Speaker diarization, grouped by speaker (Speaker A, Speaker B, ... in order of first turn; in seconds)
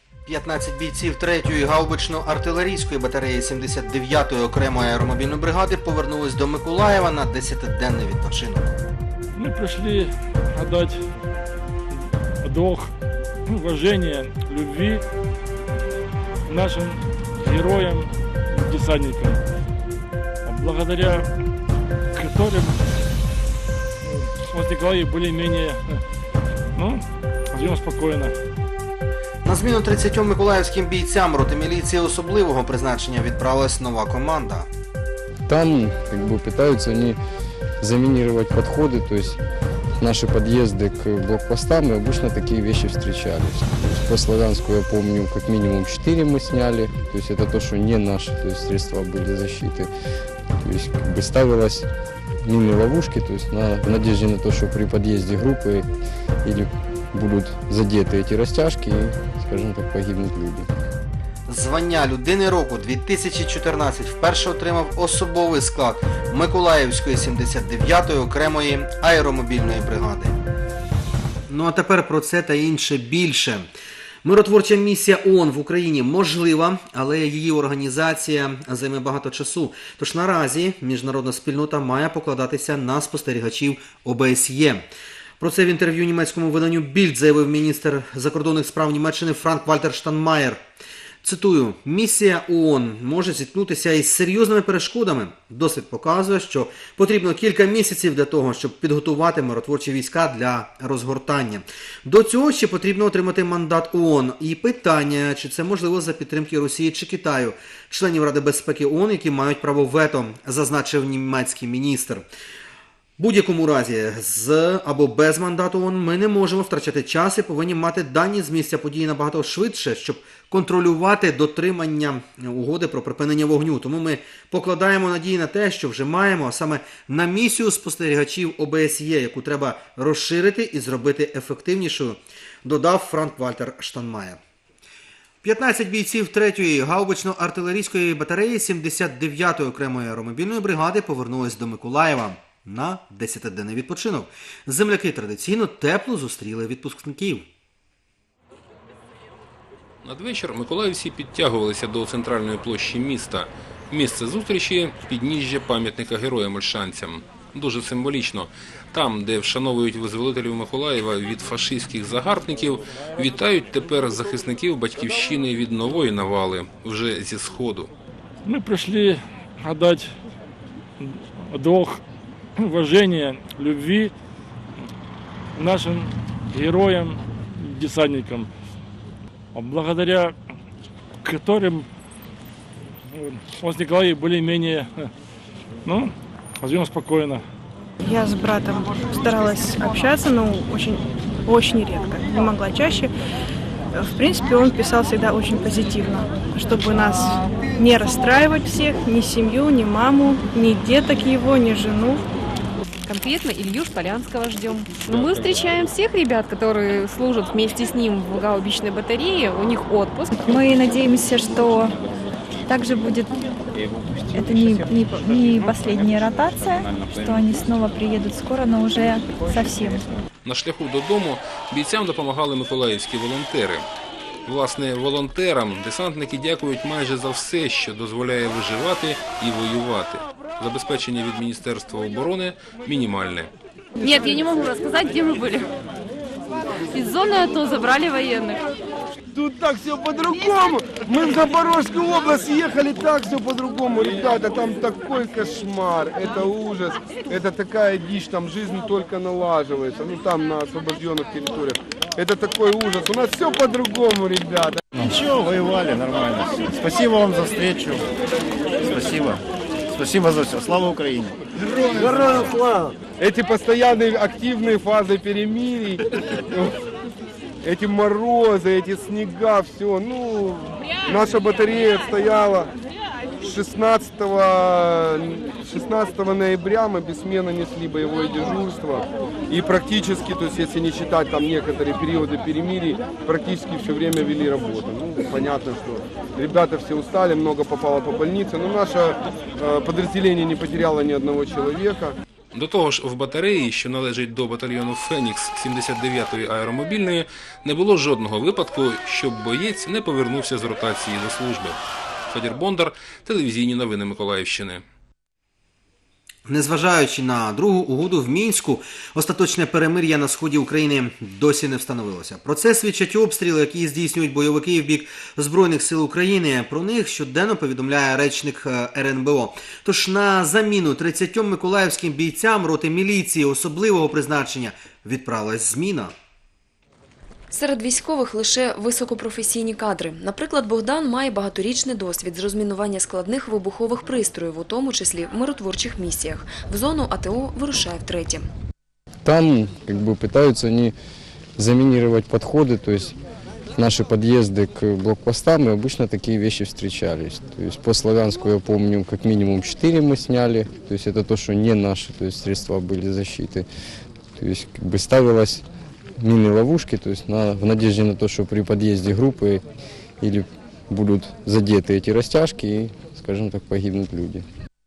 Speaker A: 0.2-8.7, 29.4-34.7, 61.5-70.4, 71.5-73.7, 74.2-84.8, 85.4-90.6, 91.2-112.2, 113.2-134.4, 135.4-147.5, 306.4-326.1
Speaker B: 9.3-11.0, 12.4-12.9, 13.5-15.0, 16.5-19.4, 20.4-21.2, 22.1-22.8, 24.1-26.0, 26.7-28.3, 168.4-170.1, 171.0-172.0, 172.6-174.1, 175.5-178.5, 179.5-180.3, 181.2-181.9, 183.1-185.1, 185.8-187.4
Speaker C: 35.5-37.2, 37.8-39.4, 40.0-49.9, 50.6-51.9, 52.4-55.9, 56.4-60.7, 339.2-340.9, 341.6-343.2, 343.7-353.6, 354.4-355.6, 356.2-359.6, 360.2-364.4
Speaker D: 150.0-167.9, 220.4-223.8, 224.4-233.5, 292.5-301.8, 302.3-304.8
Speaker E: 188.0-193.1, 193.9-202.2
Speaker F: 203.1-210.4, 234.0-235.7, 236.9-238.6
Speaker G: 210.8-211.9, 212.7-213.1, 214.3-220.0
Speaker H: 239.3-254.7, 262.0-262.3, 263.2-266.0, 267.6-272.5, 273.5-274.5, 275.6-278.9, 279.5-281.4, 281.9-282.5, 283.3-286.6, 290.3-292.1
Speaker I: 254.9-258.0, 258.8-261.4, 261.9-262.9
Speaker J: 327.5-338.5